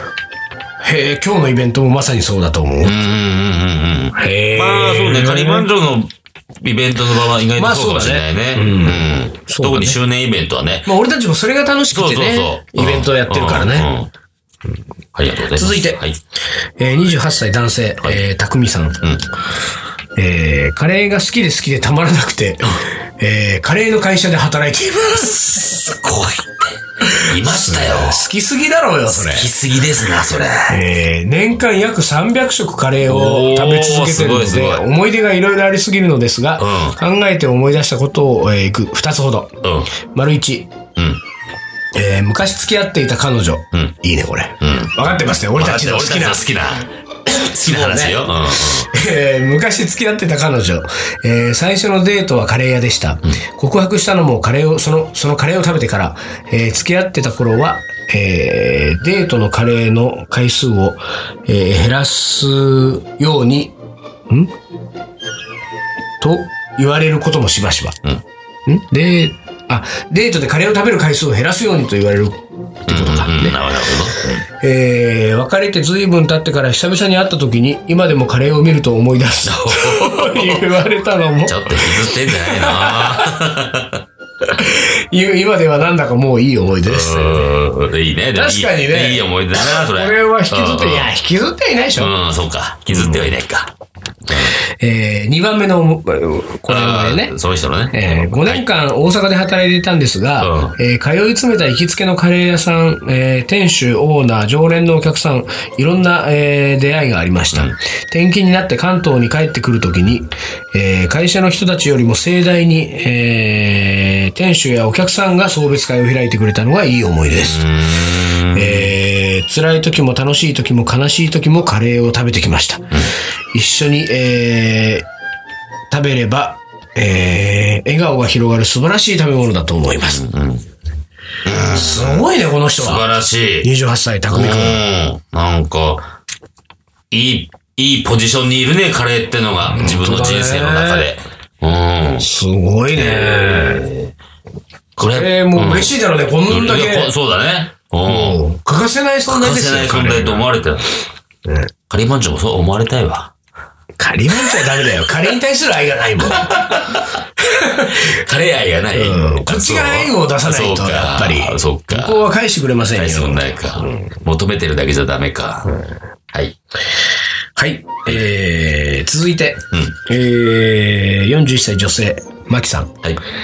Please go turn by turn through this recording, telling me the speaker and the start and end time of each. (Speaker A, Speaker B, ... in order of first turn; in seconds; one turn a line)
Speaker A: 0.8-3.0
Speaker B: 2.8-10.9
Speaker A: 4.2-5.7
Speaker A: 7.6-10.0
Speaker A: 10.8-13.9
Speaker B: 11.9-14.1
Speaker B: 15.1-16.2
Speaker A: 15.5-16.0
Speaker A: 16.8-19.0
Speaker A: 20.1-25.5
Speaker B: 25.1-28.2
Speaker A: 27.0-29.5
Speaker B: 29.1-30.8
Speaker A: 30.7-40.7
Speaker B: 33.0-34.8
Speaker B: 36.6-37.0
Speaker B: 39.6-39.9
Speaker B: 41.0-41.2
Speaker A: 41.9-46.5
Speaker B: 44.6-48.9
Speaker A: 47.3-63.7
Speaker A: 66.2-68.0
Speaker A: 68.7-73.7
Speaker B: 72.9-74.4
Speaker A: 74.5-83.3
Speaker B: 79.4-80.7
Speaker B: 81.4-84.0
Speaker A: 84.5-87.5
Speaker B: 86.8-91.1
Speaker A: 88.3-92.1
Speaker B: 92.0-93.7
Speaker A: 92.9-93.2
Speaker B: 94.2-94.5
Speaker A: 94.4-97.3
Speaker B: 96.7-98.6
Speaker A: 97.9-117.7
Speaker B: 100.4-100.8
Speaker B: 117.3-118.9
Speaker A: 118.5-125.1
Speaker A: 125.9-130.2
Speaker B: 130.0-130.7
Speaker B: 131.4-133.7
Speaker A: 131.6-133.1
Speaker A: 133.6-134.8
Speaker B: 134.3-136.1
Speaker B: 137.1-142.2
Speaker A: 139.7-141.1
Speaker A: 142.2-143.9
Speaker B: 142.9-144.1
Speaker B: 145.0-148.4
Speaker A: 145.0-147.1
Speaker A: 148.0-150.5
Speaker B: 149.3-150.9
Speaker B: 151.9-153.3
Speaker A: 154.0-156.7
Speaker B: 154.4-155.1
Speaker B: 156.2-157.2
Speaker A: 157.4-158.2
Speaker B: 157.9-162.2
Speaker A: 158.9-164.1
Speaker B: 162.9-165.8
Speaker B: 166.3-166.6
Speaker A: 167.6-172.9